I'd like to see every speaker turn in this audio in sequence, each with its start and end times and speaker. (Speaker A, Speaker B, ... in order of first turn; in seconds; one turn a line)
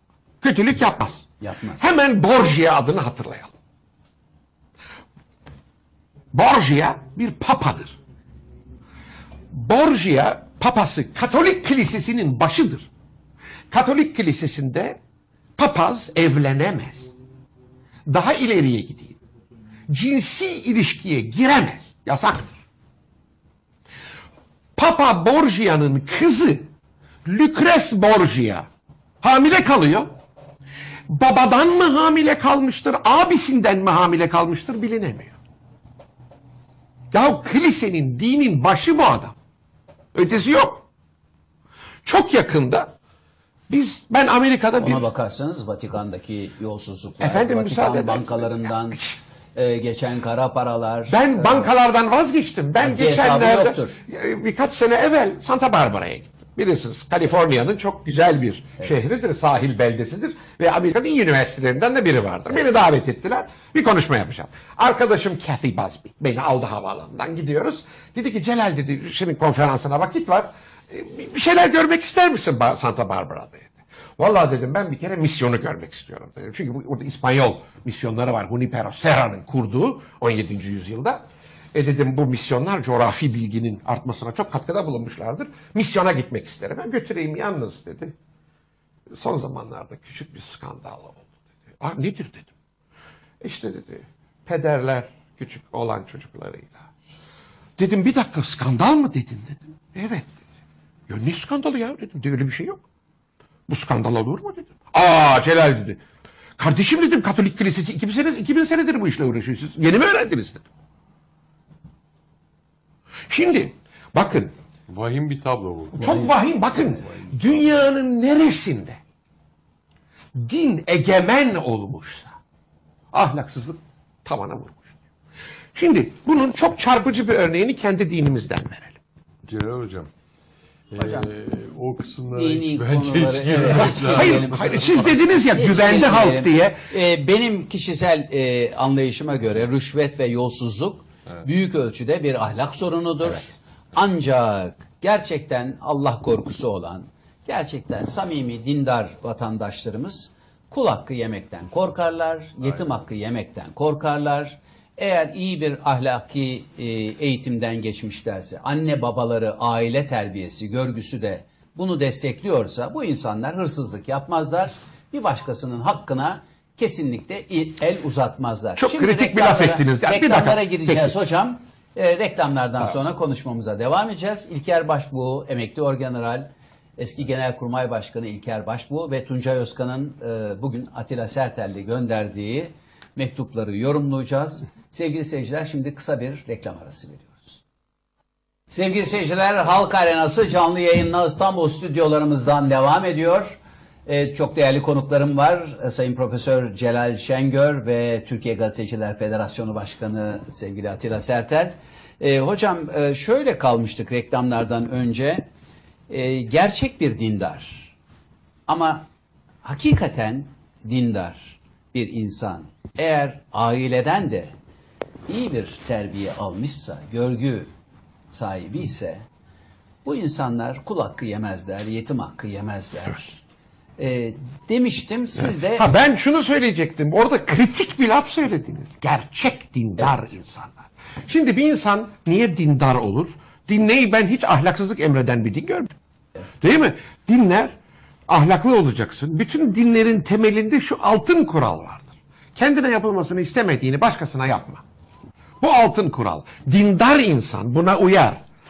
Speaker A: 0.4-1.3
Speaker B: 1.4-1.9
Speaker A: 1.8-3.5
Speaker A: 6.3-8.0
Speaker A: 9.5-12.9
Speaker A: 13.7-15.0
Speaker A: 15.6-17.1
Speaker A: 18.1-19.2
Speaker A: 19.9-22.6
Speaker A: 24.8-26.7
Speaker A: 27.2-28.7
Speaker A: 29.2-30.1
Speaker A: 31.1-35.3
Speaker A: 37.1-39.4
Speaker A: 40.1-40.9
Speaker A: 42.0-42.9
Speaker A: 43.7-45.0
Speaker B: 44.8-49.0
Speaker A: 47.2-49.2
Speaker B: 49.5-51.7
Speaker A: 51.1-81.2
Speaker B: 52.8-54.0
Speaker A: 81.7-88.1
Speaker A: 89.2-91.3
Speaker A: 91.8-92.5
Speaker A: 93.4-96.8
Speaker A: 97.8-100.4
Speaker A: 101.1-102.8
Speaker A: 103.7-106.0
Speaker A: 106.6-110.6
Speaker A: 113.3-114.5
Speaker C: 114.9-116.3
Speaker A: 115.9-119.0
Speaker A: 120.3-122.3
Speaker A: 123.1-124.9
Speaker A: 125.8-129.0
Speaker C: 129.5-130.1
Speaker C: 130.9-135.2
Speaker B: 131.0-131.3
Speaker B: 132.3-134.9
Speaker A: 133.6-136.8
Speaker B: 135.5-187.6
Speaker A: 168.8-171.1
Speaker B: 188.7-205.5
Speaker B: 206.1-207.9
Speaker B: 208.7-209.1
Speaker B: 209.6-214.5
Speaker B: 215.3-217.7
Speaker B: 218.3-219.2
Speaker B: 220.0-223.4
Speaker B: 224.0-225.9
Speaker A: 225.4-235.9
Speaker A: 236.6-237.7
Speaker A: 238.3-244.8
Speaker A: 245.6-248.4